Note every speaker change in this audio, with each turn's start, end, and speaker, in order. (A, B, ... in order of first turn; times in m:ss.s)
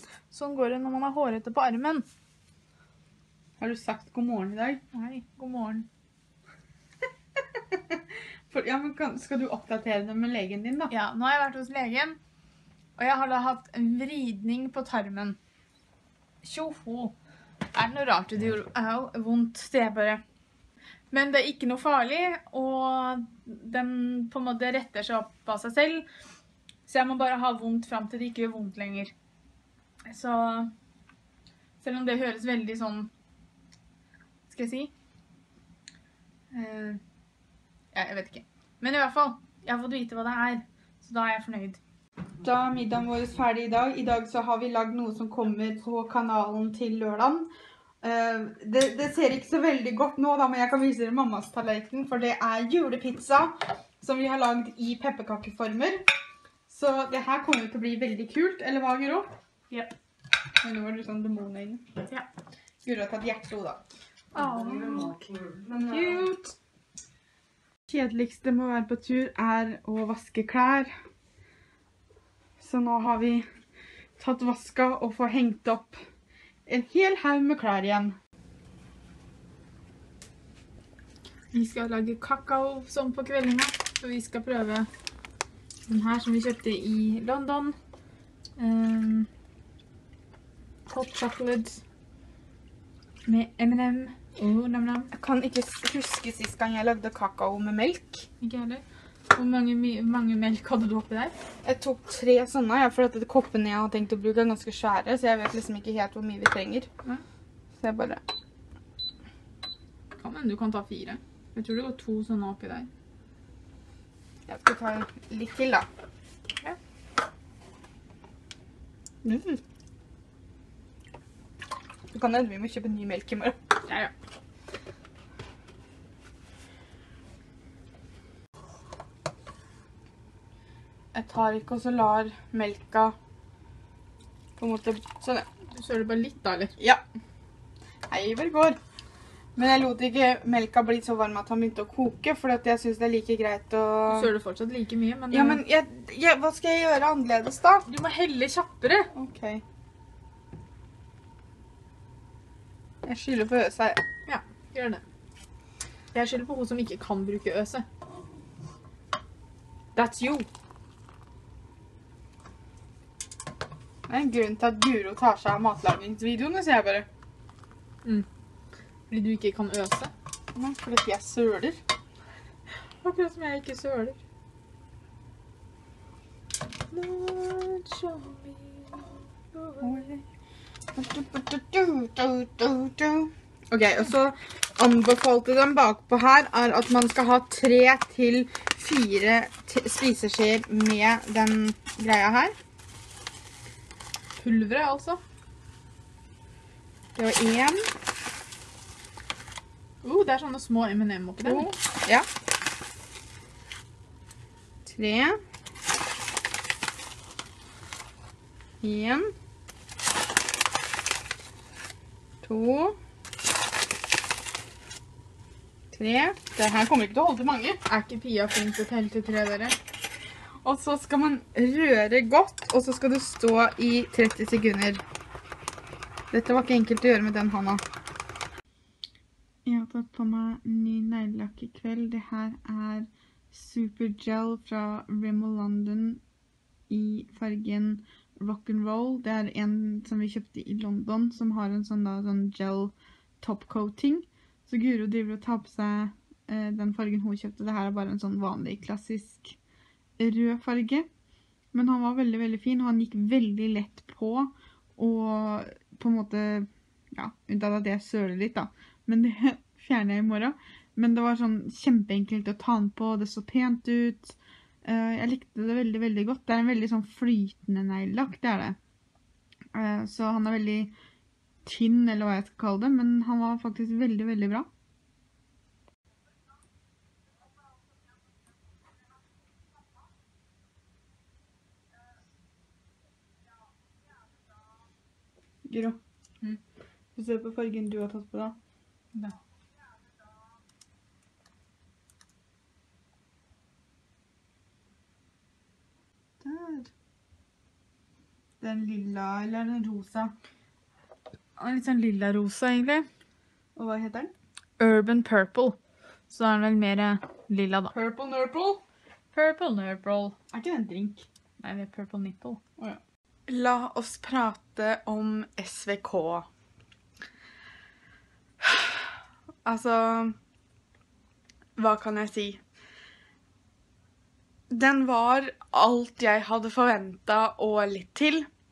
0:00.3-0:02.0 A
0:03.6-0:04.8 B
0:04.9-0:05.9 A
0:07.7-0:08.0 B
0:08.5-0:10.9 B
0:10.9-0:12.2 A
0:13.0-0:15.4 A
0:16.4-0:17.1 A
0:17.7-0:20.2 A
0:21.1-0:26.1 A
0:26.9-0:29.1 A
0:30.1-0:30.7 A
0:31.8-0:33.1 A
0:34.5-0:34.9 A
0:36.5-0:37.0 A
0:37.9-0:41.8 A
0:42.4-0:47.5 B
0:48.0-0:56.0 B
0:56.7-0:59.3 B
1:00.6-1:01.9 B
1:02.8-1:03.8 B
1:04.3-1:06.5 A
1:05.7-1:06.3 B
1:07.9-1:10.9 B
1:12.6-1:13.4 B
1:14.2-1:16.0 B
1:16.6-1:18.2 B
1:21.5-1:24.9 A
1:25.9-1:27.8 A
1:28.6-1:29.3 A
1:30.9-1:31.8 A
1:33.2-1:35.1 A
1:35.1-1:38.3 B
1:38.4-1:41.3 A
1:41.6-1:46.9 B
1:47.8-1:48.2 B
1:50.2-1:52.9 A
1:54.5-1:55.9 B
1:59.2-1:59.6 B
2:02.1-2:03.8 B
2:11.1-2:13.1 B
2:14.6-2:15.5 B
2:15.7-2:16.7 A
2:16.8-2:17.0 B
2:18.1-2:18.8 B
2:19.6-2:24.3 B
2:24.1-2:25.6 A
2:25.3-2:27.9 B
2:27.9-2:29.1 A
2:29.1-2:29.6 B
2:33.0-2:34.0 B
2:34.2-2:35.0 A
2:36.1-2:37.8 A
2:39.9-2:40.5 A
2:44.1-2:47.1 B
2:49.1-2:50.1 A
2:50.5-2:51.8 B
2:53.0-2:54.2 A
2:56.9-3:00.1 A
2:59.8-3:00.2 B
3:00.9-3:12.5 B
3:14.4-3:15.2 A
3:17.1-3:17.9 B
3:20.0-3:21.7 A
3:21.4-3:22.3 B
3:24.8-3:25.4 B
3:28.8-3:29.3 B
3:32.4-3:33.0 B
3:35.9-3:37.8 B
3:37.8-3:39.8 A
3:40.6-3:45.0 B
3:46.3-3:47.8 B
3:49.6-3:56.2 B
3:56.9-4:09.6 B
4:10.2-4:11.1 B
4:11.7-4:28.8 B
4:29.7-4:30.9 B
4:31.6-4:34.7 B
4:45.6-4:46.0 B
4:47.2-4:48.6 B
4:56.4-4:56.9 B
4:58.6-5:00.3 B
5:01.6-5:03.1 A
5:03.8-5:04.3 B
5:04.8-5:05.8 A
5:06.3-5:07.9 A
5:07.9-5:08.8 B
5:09.3-5:10.4 A
5:10.5-5:11.2 B
5:11.6-5:12.6 A
5:12.8-5:16.4 B
5:19.6-5:20.3 B
5:21.8-5:22.6 B
5:24.7-5:28.5 B